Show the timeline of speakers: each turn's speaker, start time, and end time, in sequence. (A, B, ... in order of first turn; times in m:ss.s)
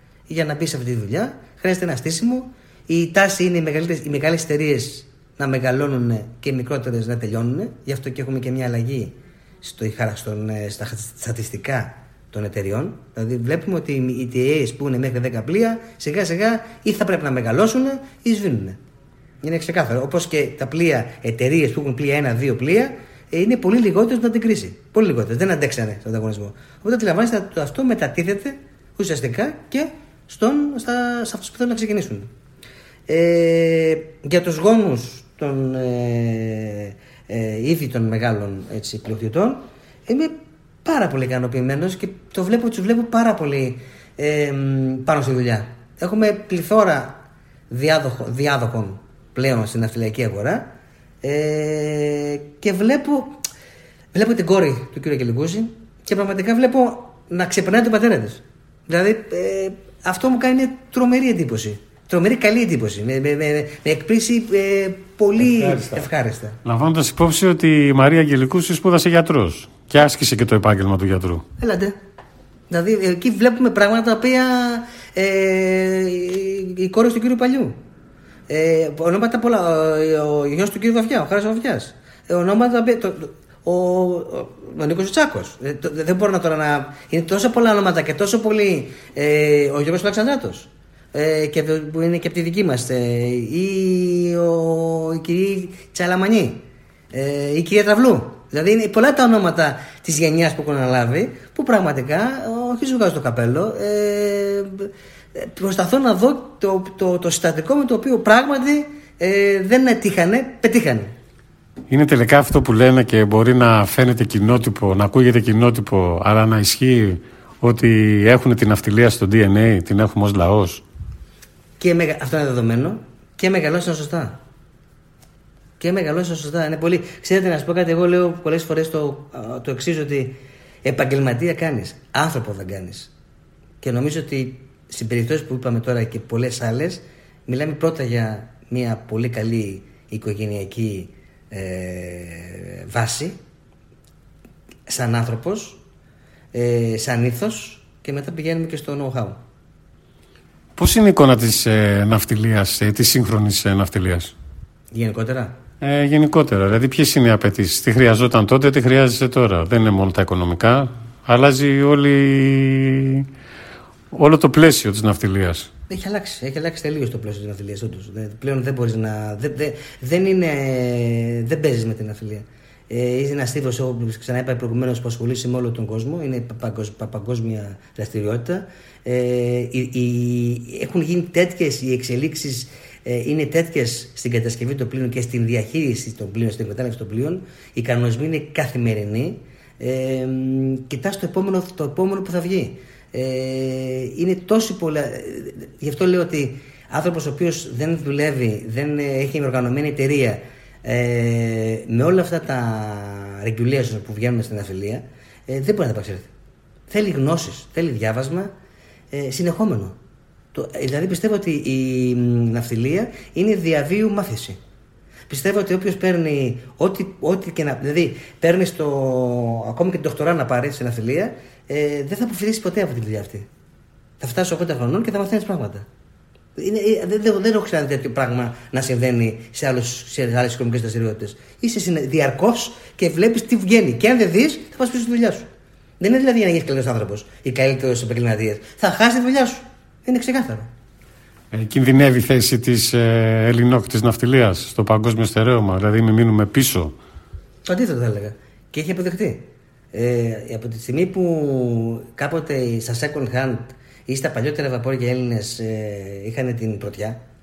0:00.3-0:18.8 A
0:19.4-0:32.3 A
0:33.1-0:53.4 A
0:54.1-1:06.6 A
1:05.5-1:06.0 B
1:06.6-1:11.4 B
1:11.6-1:12.0 A
1:12.7-1:17.8 A
1:18.5-1:51.1 A
1:51.9-2:00.8 B
2:01.8-2:04.4 A
2:05.8-2:13.1 A
2:13.8-2:23.4 A
2:24.9-2:25.8 A
2:26.5-2:29.4 A
2:30.8-2:34.3 B
2:34.9-2:35.5 A
2:35.8-2:43.3 B
2:44.1-2:45.7 B
2:45.9-3:26.3 A
3:26.9-3:28.5 A
3:29.1-3:30.0 A
3:30.5-3:34.6 A
3:35.3-3:43.5 A
3:44.2-3:45.8 A
3:46.6-3:55.5 A
3:56.0-4:00.7 A
4:01.5-4:06.9 B
4:07.6-4:17.2 A